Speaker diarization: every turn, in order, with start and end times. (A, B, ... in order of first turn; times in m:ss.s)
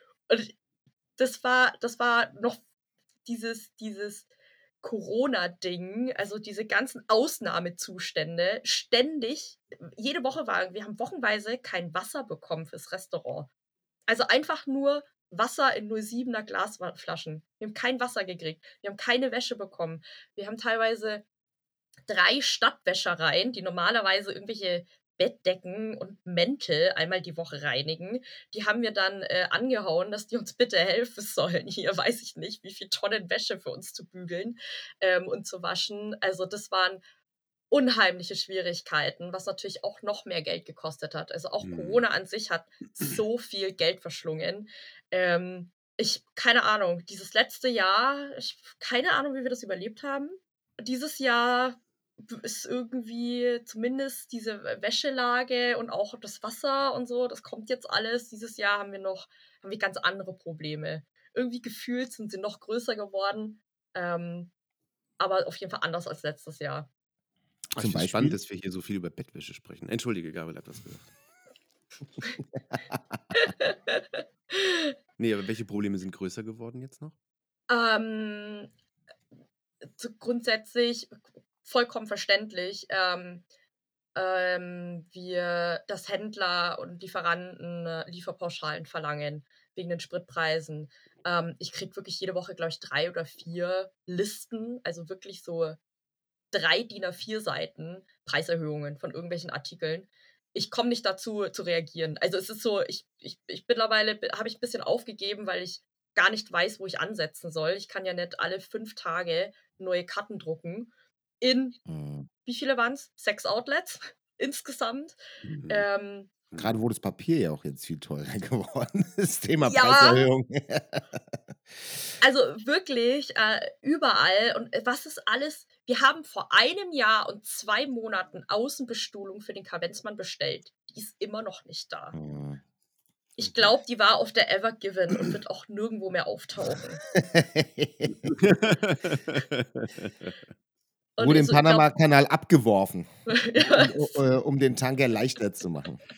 0:00.3-0:00.5 A
0:01.2-0:02.6 A
0:03.2-0:04.3 A
0:04.8-0:13.5 A
0:14.1-0:21.2 A
0:22.1-0:37.0 A
0:37.7-1:04.5 A
0:41.6-0:42.0 B
1:05.2-1:06.9 A
1:07.7-1:11.1 B
1:07.8-1:08.4 C
1:12.7-1:13.0 C
1:13.3-1:14.9 A
1:15.2-1:17.2 B
1:17.7-1:18.7 A
1:20.0-1:23.4 A
1:24.2-1:35.8 A
1:36.5-1:50.9 A
1:51.4-1:51.8 A
1:51.9-1:52.3 C
1:52.4-1:55.2 A
1:55.4-1:55.9 B
1:55.7-1:56.3 A
1:56.6-2:01.4 C
1:59.6-2:00.3 A
2:02.2-2:12.2 A
2:12.1-2:12.6 C
2:13.4-2:17.0 A
2:17.1-2:18.7 C
2:18.4-2:20.3 B
2:21.2-2:21.9 A
2:21.2-2:26.0 C
2:23.3-2:24.2 A